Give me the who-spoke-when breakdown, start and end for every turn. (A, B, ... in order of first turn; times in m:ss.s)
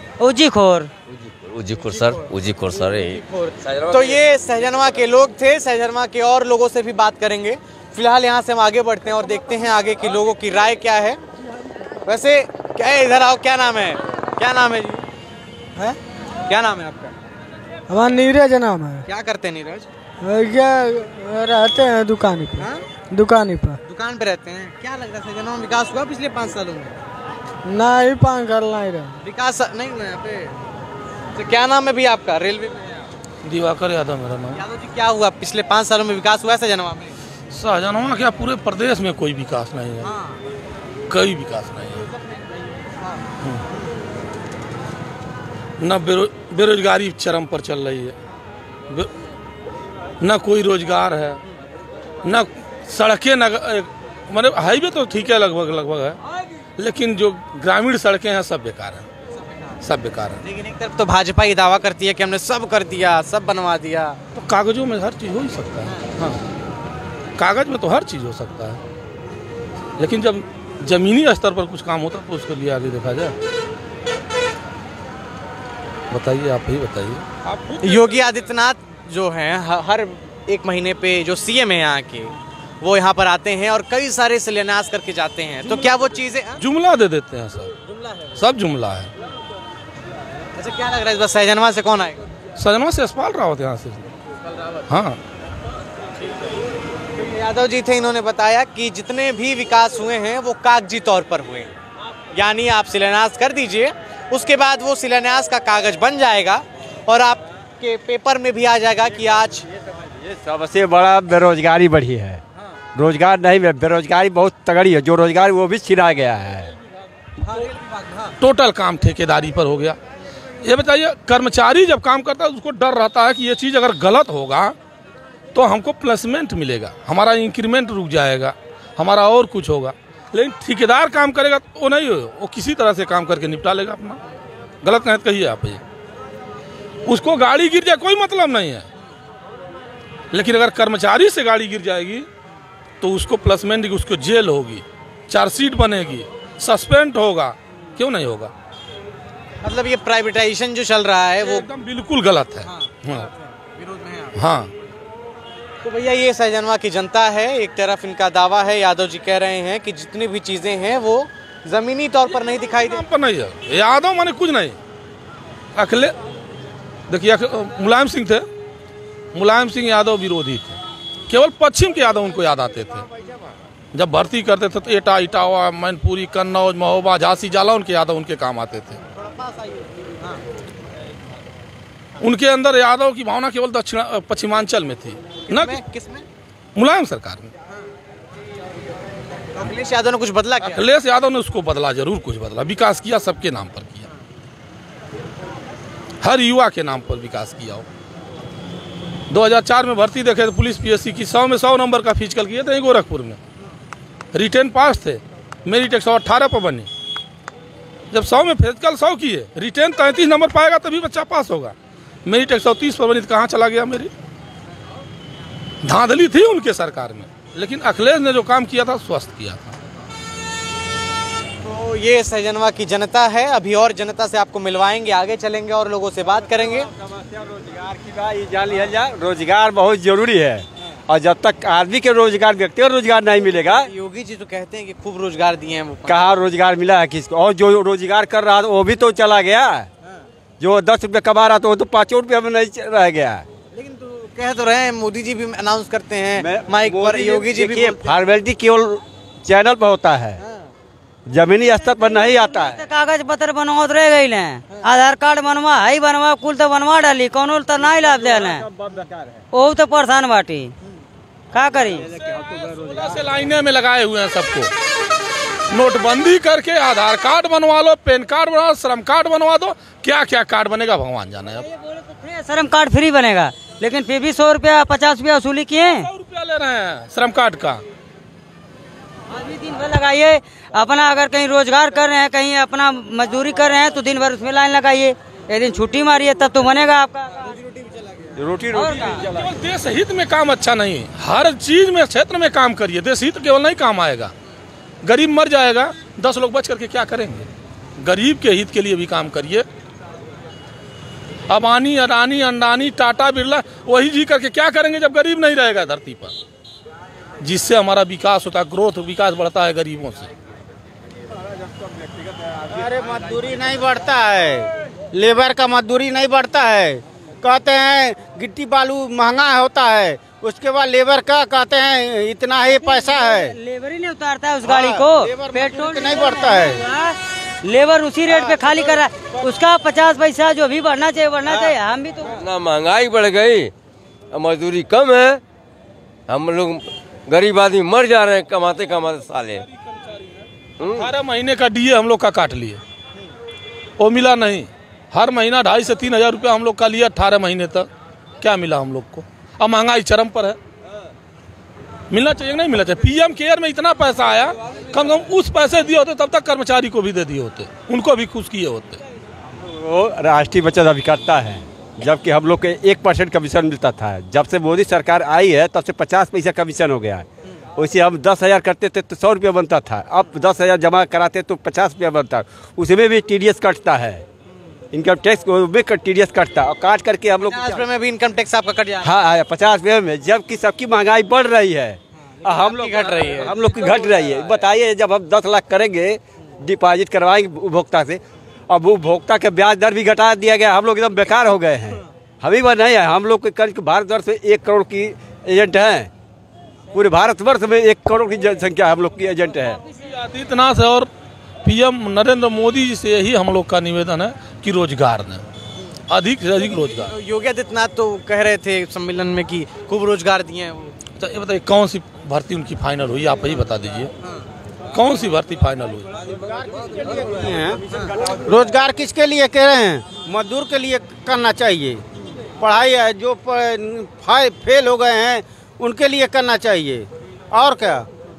0:00.2-0:00.9 A
0:01.1-0:04.2 B
0:01.9-0:02.3 C
0:02.9-0:11.2 C
0:12.1-0:15.0 C
0:16.5-0:17.2 C
0:17.9-0:19.0 D
0:19.1-0:19.9 C
0:20.2-0:23.8 D
0:22.6-0:22.8 C
0:23.9-0:27.0 C
0:27.6-0:29.2 D
0:29.2-0:30.6 C
0:31.4-0:33.1 C
0:33.4-0:34.6 E
0:34.5-0:37.2 C
0:37.5-0:40.1 E
0:40.0-0:40.4 C
0:41.1-0:42.1 E
0:42.1-0:42.8 C
0:45.8-0:48.2 E
0:50.2-0:51.4 E
0:52.2-0:56.2 E
0:56.8-0:59.1 E
0:59.4-0:59.8 C
0:59.8-1:00.4 E
1:00.4-1:04.2 C
1:04.4-1:06.4 E
1:07.4-1:08.8 E
1:10.0-1:13.4 E
1:16.1-1:18.3 E
1:17.8-1:26.6 C
1:26.6-1:27.8 E
1:28.4-1:29.1 E
1:30.6-1:32.2 C
1:32.6-1:34.1 E
1:34.5-1:34.9 C
1:34.9-1:35.2 E
1:37.2-1:41.7 C
1:42.3-1:49.7 C
1:50.2-1:52.4 F
1:53.0-1:56.7 F
1:57.5-1:58.3 C
1:58.4-2:00.0 E
2:00.6-2:04.8 E
2:05.5-2:14.2 E
2:14.8-2:15.8 E
2:17.1-2:18.9 E
2:20.3-2:22.3 E
2:23.0-2:28.5 E
2:29.6-2:31.7 C
2:31.4-2:33.3 E
2:32.6-2:34.4 C
2:34.4-2:34.7 E
2:35.8-2:43.0 C
2:42.8-2:44.8 E
2:45.8-2:46.2 E
2:47.1-2:48.5 E
2:49.3-2:53.1 E
2:53.9-2:59.0 E
2:59.1-3:00.4 C
3:02.2-3:05.8 E
3:05.5-3:06.2 C
3:06.8-3:07.5 E
3:09.6-3:10.9 C
3:10.6-3:14.1 E
3:16.2-3:17.9 E
3:19.3-3:23.4 E
3:24.3-3:26.9 E
3:28.1-3:31.8 E
3:32.3-3:34.1 E
3:35.8-3:39.8 E
3:41.6-3:46.9 C
3:46.8-3:53.9 F
3:53.5-3:56.3 C
3:56.1-3:59.9 F
4:00.6-4:03.4 F
4:03.7-4:08.1 C
4:06.4-4:10.4 F
4:10.4-4:10.7 C
4:11.3-4:12.8 F
4:12.0-4:18.7 A
4:18.0-4:19.4 F
4:19.5-4:20.7 A
4:21.5-4:22.1 A
4:22.0-4:23.2 F
4:22.6-4:24.7 E
4:25.7-4:31.7 E
4:31.7-4:36.1 A
4:36.0-4:37.8 E
4:39.3-4:47.5 A
4:47.5-4:48.3 C
4:48.4-4:49.5 F
4:48.8-4:49.2 A
4:49.4-4:54.3 E
4:55.0-4:57.5 E
4:58.0-4:59.7 E
5:01.5-5:06.4 E
5:07.4-5:10.3 E
5:12.7-5:23.6 G
5:22.7-5:32.4 A
5:24.6-5:26.8 G
5:32.4-5:33.7 B
5:34.3-5:35.4 B
5:36.3-5:39.7 B
5:40.8-5:41.1 B
5:40.9-5:42.8 E
5:44.0-5:47.9 E
5:48.4-5:50.6 E
5:52.1-5:59.0 E
5:59.6-6:14.2 F
6:14.9-6:17.8 F
6:17.4-6:19.1 C
6:19.0-6:36.1 F
6:22.3-6:23.9 C
6:36.9-6:39.8 F
6:39.9-6:41.1 E
6:41.6-6:45.4 E
6:46.1-6:47.1 E
6:46.6-6:51.0 C
6:51.2-6:54.1 E
6:54.9-6:56.1 E
6:56.3-6:57.8 G
6:57.9-6:58.2 C
6:58.4-7:02.0 G
7:02.6-7:08.1 G